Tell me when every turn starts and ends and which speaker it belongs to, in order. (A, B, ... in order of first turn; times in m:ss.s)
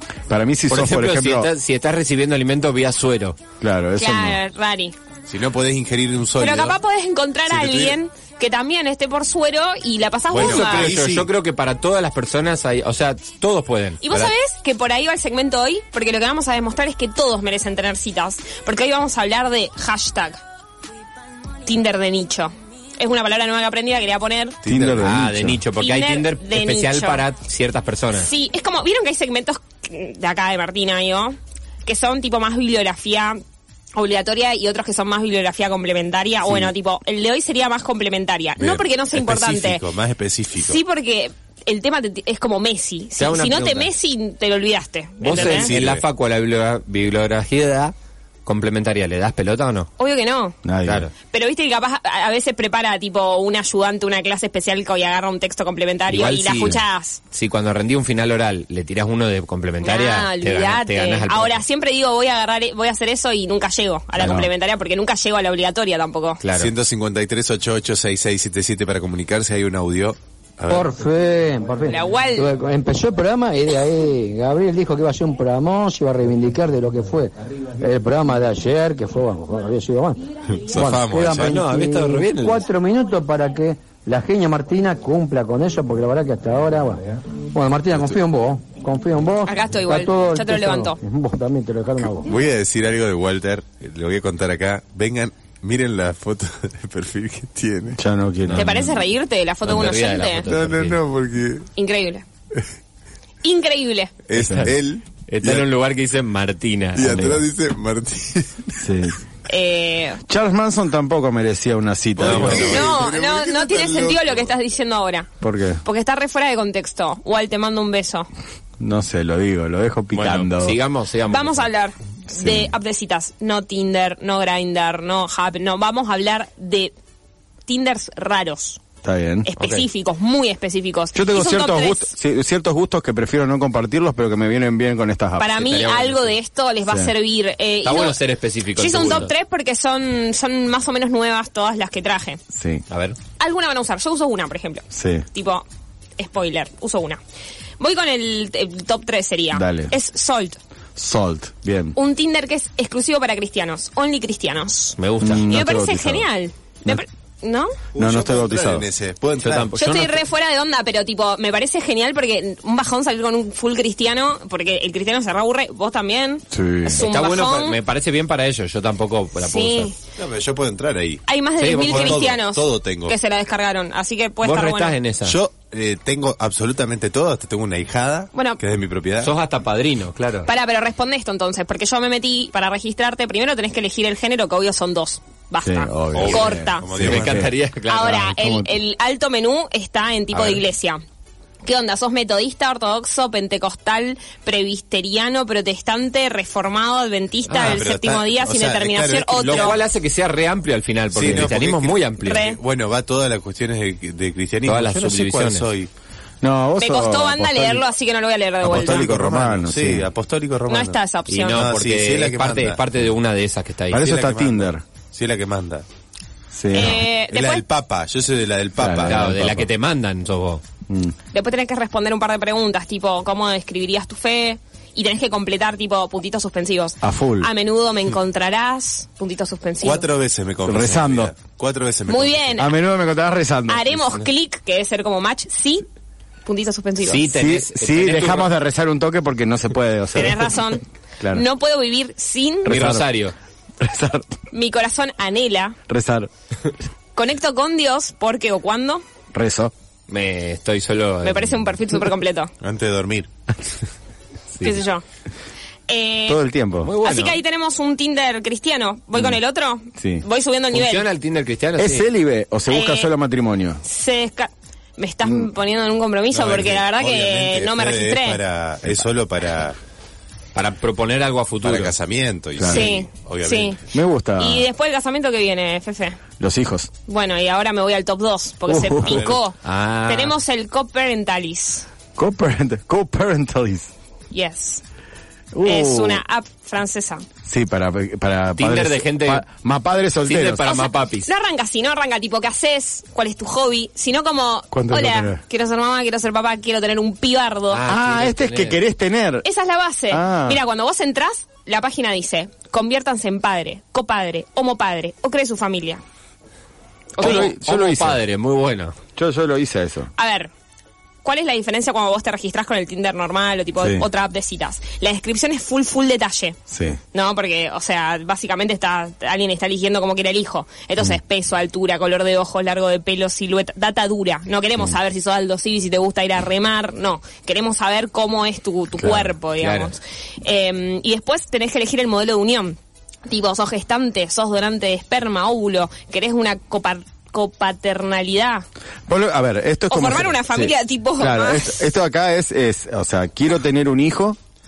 0:00.3-0:01.5 A
0:00.7-0:03.4 B
0:03.6-0:04.4 A
0:04.0-0:05.0 C
0:05.3-0:06.8 D
0:06.4-0:11.0 C
0:07.5-0:08.0 D
0:10.3-0:11.3 D
0:10.4-0:14.0 B
0:14.0-0:20.4 C
0:21.7-0:24.6 C
0:24.6-0:25.1 D
0:24.6-0:25.6 A
0:25.0-0:28.3 B
0:25.8-0:27.2 C
0:28.1-0:33.4 C
0:34.0-0:39.8 C
0:38.6-0:40.8 D
0:40.6-0:45.7 C
0:43.2-0:43.9 B
0:45.2-0:47.9 B
0:45.3-0:46.0 D
0:48.5-0:49.9 B
0:50.0-0:50.6 C
0:50.6-0:51.1 A
0:50.8-0:51.1 B
0:51.3-0:57.2 C
0:56.1-1:01.6 B
0:59.8-1:06.4 C
1:04.2-1:04.5 A
1:06.4-1:06.7 B
1:06.6-1:11.0 D
1:10.7-1:32.3 E
1:11.9-1:12.5 C
1:20.5-1:21.6 D
1:21.3-1:22.7 B
1:29.4-1:31.0 C
1:32.2-1:38.0 D
1:38.0-1:38.8 A
1:38.5-1:39.0 B
1:38.6-1:40.5 C
1:39.7-1:41.0 B
1:40.5-1:41.7 D
1:41.8-1:42.2 C
1:43.4-1:44.1 C
1:44.3-1:45.7 D
1:44.4-1:44.8 A
1:45.3-1:47.4 B
1:47.0-1:48.8 D
1:48.8-1:49.2 A
1:49.5-1:50.2 C
1:50.3-1:52.9 A
1:52.2-1:54.5 D
1:52.2-1:52.7 B
1:52.6-1:55.3 C
1:55.4-1:55.8 A
1:55.8-1:58.3 C
1:58.8-2:00.8 A
2:00.1-2:01.7 B
2:01.3-2:06.9 C
2:02.4-2:02.7 A
2:07.7-2:08.8 C
2:09.0-2:09.5 A
2:09.5-2:12.1 C
2:09.6-2:09.9 B
2:11.1-2:15.6 A
2:15.4-2:18.2 C
2:15.5-2:16.3 B
2:17.8-2:19.3 B
2:18.8-2:22.4 C
2:22.5-2:22.8 A
2:22.9-2:23.2 B
2:23.4-2:25.6 C
2:24.9-2:25.3 A
2:26.2-2:27.2 C
2:27.8-2:30.6 C
2:29.5-2:29.9 A
2:31.0-2:32.0 A
2:32.0-2:37.8 C
2:35.0-2:35.5 B
2:35.2-2:36.3 A
2:37.9-2:39.7 D
2:38.0-2:38.9 A
2:39.4-2:40.2 B
2:39.8-2:47.8 C
2:46.5-2:47.0 A
2:47.0-2:49.9 B
2:49.4-2:50.0 C
2:50.2-2:53.2 D
2:51.3-2:55.0 C
2:51.6-2:52.2 B
2:54.4-2:55.4 B
2:55.2-2:59.3 D
2:58.3-2:58.6 C
2:59.2-3:00.5 B
3:00.5-3:06.9 C
3:05.6-3:07.5 A
3:06.1-3:07.5 D
3:06.9-3:08.3 B
3:07.9-3:11.0 C
3:08.2-3:08.7 A
3:10.3-3:10.6 B
3:11.6-3:19.8 C
3:17.5-3:17.8 B
3:17.5-3:19.8 D
3:19.4-3:22.4 B
3:21.1-3:25.9 D
3:22.2-3:22.6 C
3:24.6-3:25.7 B
3:26.4-3:27.9 A
3:26.8-3:29.1 C
3:28.6-3:30.1 A
3:28.6-3:32.8 D
3:30.7-3:31.6 C
3:31.3-3:34.2 B
3:33.9-3:34.8 A
3:34.0-3:35.8 D
3:36.5-3:37.0 A
3:36.7-3:37.6 C
3:36.8-3:39.3 D
3:38.8-3:39.7 A
3:39.0-3:40.6 B
3:40.9-3:41.2 A
3:41.3-3:50.1 C
3:47.0-3:47.5 A
3:49.8-3:52.6 D
3:50.6-3:51.3 A
3:52.1-3:52.8 C
3:52.6-3:54.0 A
3:53.7-3:55.9 C
3:56.4-3:57.3 C
3:57.0-3:58.5 B
3:57.3-4:00.6 A
4:00.1-4:02.7 C
4:01.2-4:01.4 A
4:02.7-4:03.1 A
4:02.7-4:03.4 B
4:03.8-4:04.3 A
4:04.5-4:05.8 C
4:05.9-4:06.3 A
4:07.2-4:09.0 C
4:09.3-4:09.7 A
4:10.1-4:11.8 B
4:11.2-4:12.5 C
4:12.6-4:13.3 D
4:14.6-4:15.0 C
4:15.9-4:16.4 C
4:16.3-4:17.0 A
4:16.8-4:17.4 B
4:17.0-4:21.1 C
4:20.0-4:20.2 A
4:20.7-4:22.1 B
4:21.8-4:23.8 A
4:22.7-4:23.1 C
4:23.8-4:28.4 C
4:26.3-4:29.8 D
4:30.6-4:31.9 B
4:31.6-4:33.8 D
4:32.6-4:32.9 A
4:32.7-4:33.8 C
4:33.9-4:34.7 A
4:34.4-4:36.2 C
4:36.4-4:36.9 A
4:37.1-4:41.9 C
4:38.7-4:39.3 A
4:39.0-4:39.4 D
4:39.6-4:40.4 B
4:42.2-4:43.9 A
4:44.3-4:44.8 C
4:45.5-4:46.2 A
4:45.6-4:47.2 C
4:47.4-4:50.7 A
4:48.6-4:49.5 B
4:50.2-4:51.3 B
4:50.6-4:57.8 C
4:54.7-4:55.4 A
4:57.7-4:58.8 B
4:57.9-4:59.5 A
4:59.4-5:06.0 C
5:00.1-5:00.6 A
5:07.2-5:07.5 C
5:07.2-5:08.2 A
5:07.2-5:09.0 B
5:09.2-5:10.1 A
5:10.2-5:10.5 C
5:11.2-5:16.6 C
5:13.8-5:14.1 A
5:16.7-5:17.0 A
5:17.1-5:38.6 C
5:29.6-5:29.9 B
5:39.1-5:44.4 A
5:39.9-5:41.9 C